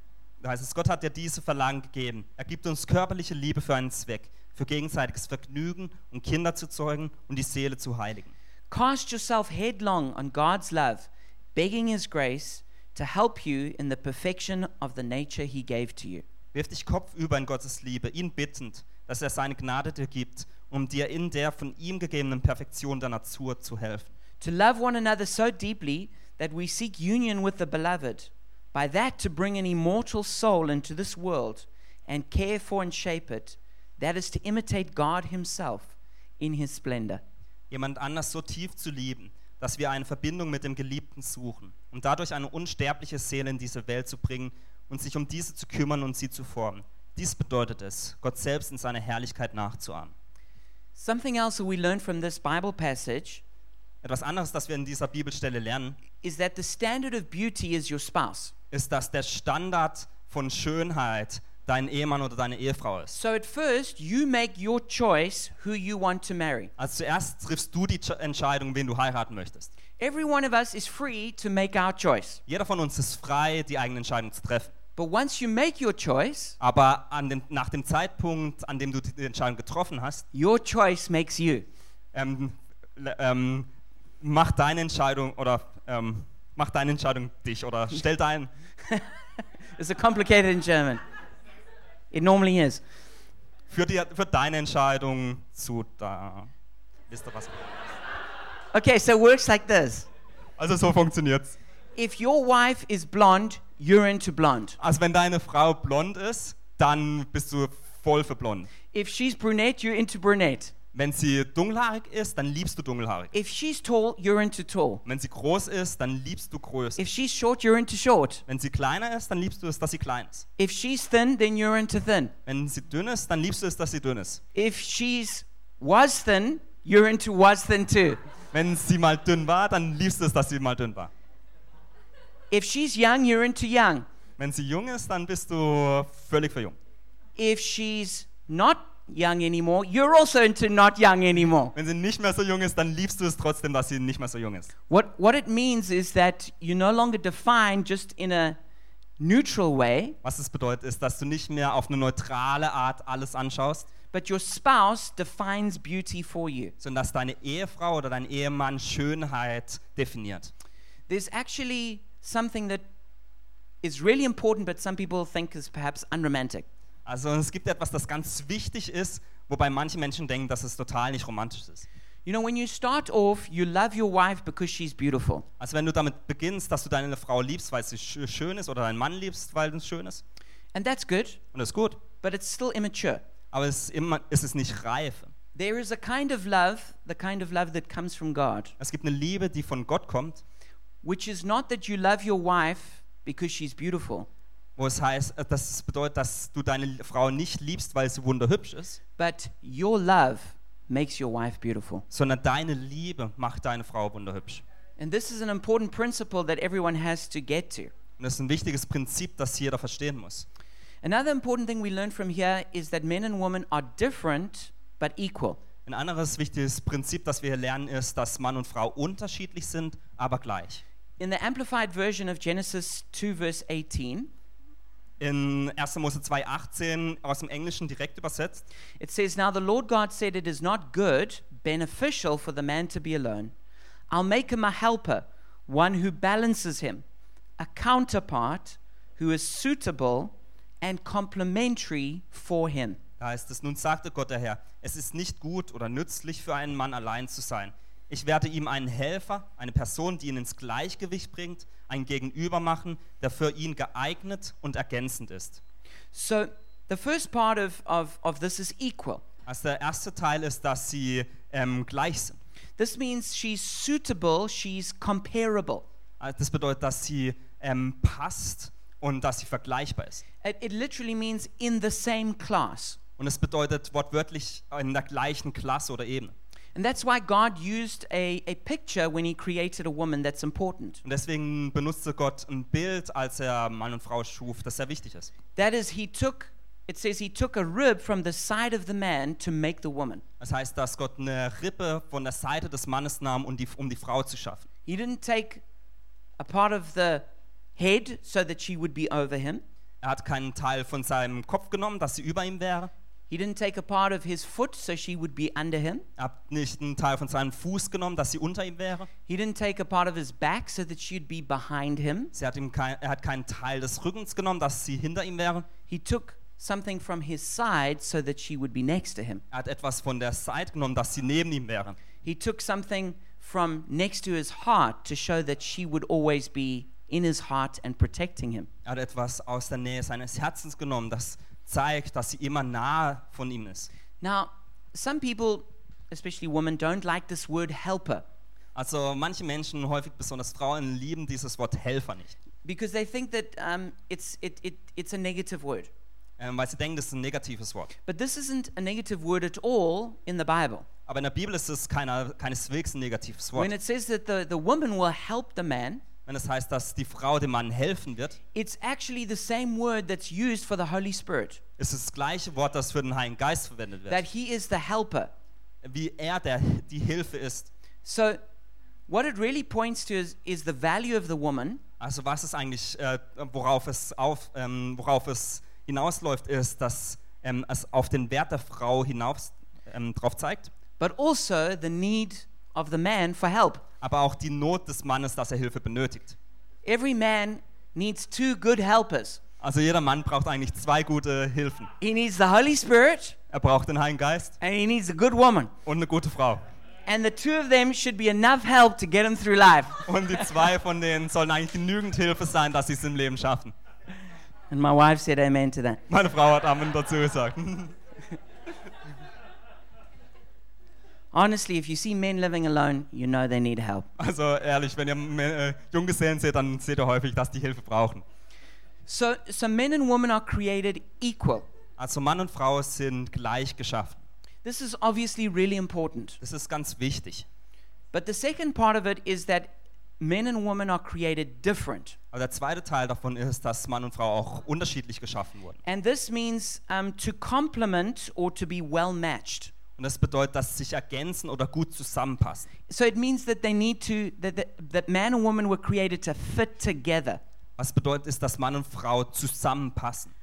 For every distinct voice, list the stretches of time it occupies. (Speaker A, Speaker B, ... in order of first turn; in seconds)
Speaker A: 0.4-8.3, 16.5-24.1, 37.7-50.1, 54.0-56.0, 58.7-63.1, 66.8-69.7, 72.5-74.7, 76.6-80.2, 82.1-83.7, 84.2-88.5, 93.7-96.5, 97.1-97.8, 100.6-101.6, 104.8-108.7, 110.9-113.3, 115.0-117.0, 118.5-120.4, 122.5-124.4, 128.5-131.1, 134.4-136.8, 141.7-144.7, 150.2-153.9, 156.8-160.5, 167.1-171.9, 175.6-180.2, 181.5-182.0, 183.5-185.3, 188.8-190.4, 194.8-199.0, 202.1-204.6, 208.2-210.4, 215.8-220.8, 225.2-228.7, 243.2-255.6, 259.5-262.4, 266.2-270.2, 273.2-276.3, 281.0-285.3, 290.4-294.7, 300.0-302.9, 306.2-309.1, 312.3-315.7, 319.5-322.0, 328.8-333.9, 338.7-342.3, 346.4-347.9, 351.1-353.7, 356.2-358.4, 361.8-364.2, 365.8-367.7, 372.0-380.7, 384.0-386.4, 389.6-391.9, 393.5-394.6, 395.8-396.6, 400.1-403.7, 406.1-407.9, 414.2-418.2, 422.0-424.2, 426.4-427.4, 432.3-435.8, 440.0-442.7, 447.8-450.3
Speaker B: 8.7-16.2, 24.4-37.2, 51.0-53.4, 56.2-58.5, 63.1-66.7, 70.0-72.4, 75.0-76.6, 80.3-81.7, 89.8-91.0, 92.1-92.8, 98.7-100.1, 102.0-104.8, 108.9-110.7, 113.3-115.0, 117.0-118.4, 120.6-122.3, 124.5-128.2, 132.5-134.0, 137.4-141.7, 144.9-148.6, 149.2-150.2, 154.1-156.7, 161.1-162.8, 163.8-166.7, 172.2-175.4, 180.7-181.4, 182.2-183.2, 185.5-188.7, 191.0-194.3, 199.2-202.0, 205.0-207.9, 211.0-215.6, 221.2-224.3, 229.0-233.5, 234.1-237.0, 237.6-243.0, 256.1-259.2, 262.8-265.8, 270.4-273.0, 276.7-281.0, 285.6-290.2, 294.9-295.6, 296.4-297.2, 297.8-299.6, 303.3-306.0, 309.3-312.3, 315.9-319.4, 322.2-328.7, 334.2-338.2, 342.6-345.9, 348.1-350.9, 353.6-356.0, 358.5-361.6, 364.1-365.3, 368.0-368.4, 369.1-371.8, 381.0-383.8, 386.9-389.4, 392.0-393.4, 394.6-395.7, 397.1-400.1, 404.7-406.0, 411.3-414.1, 419.1-421.6, 424.6-426.4, 428.1-432.1, 435.8-439.7, 442.9-447.4